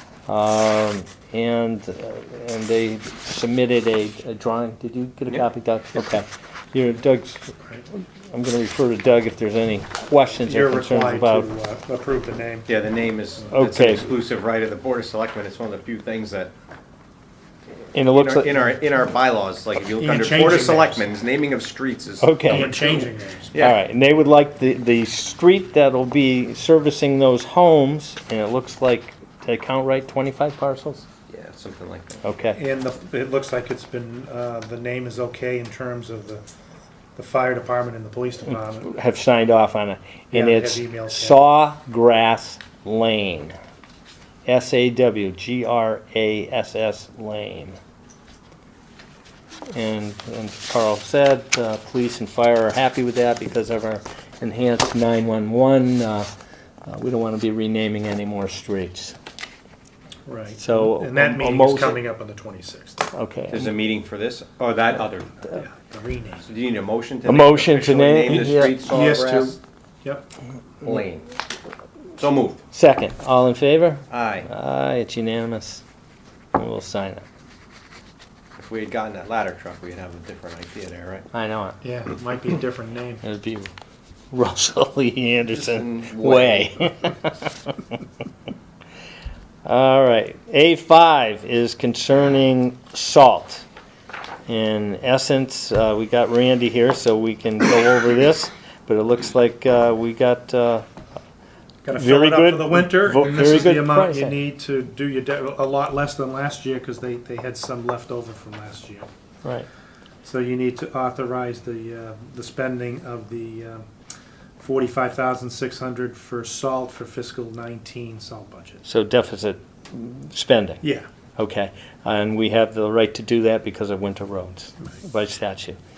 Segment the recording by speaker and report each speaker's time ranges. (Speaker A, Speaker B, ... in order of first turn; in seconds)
Speaker A: 0.3-11.5, 13.5-14.1, 17.9-18.6, 22.2-31.1, 32.2-32.6, 38.8-43.5, 44.5-47.8, 49.7-56.3, 56.9-59.2, 60.6-62.0, 63.1-63.7, 67.2-68.8, 72.7-75.8, 76.5-77.2, 81.3-81.8, 83.2-83.7, 84.3-87.5, 89.6-93.7, 94.5-100.8, 102.0-104.3, 118.8-120.8, 121.4-125.8
Speaker B: 10.4-12.7, 20.0-21.1, 22.4-23.6, 32.5-36.4, 37.2-38.9, 40.3-41.4, 60.2-63.1, 65.5-66.5, 68.3-70.3, 81.8-83.2, 101.8-109.1, 110.2-113.8, 114.6-118.8, 120.8-121.1
Speaker C: 12.7-16.5, 18.1-22.9, 31.3-32.2, 63.5-65.5, 66.4-69.6, 70.8-71.3, 72.2-72.6, 74.1-74.5, 78.6-81.2, 85.5-86.9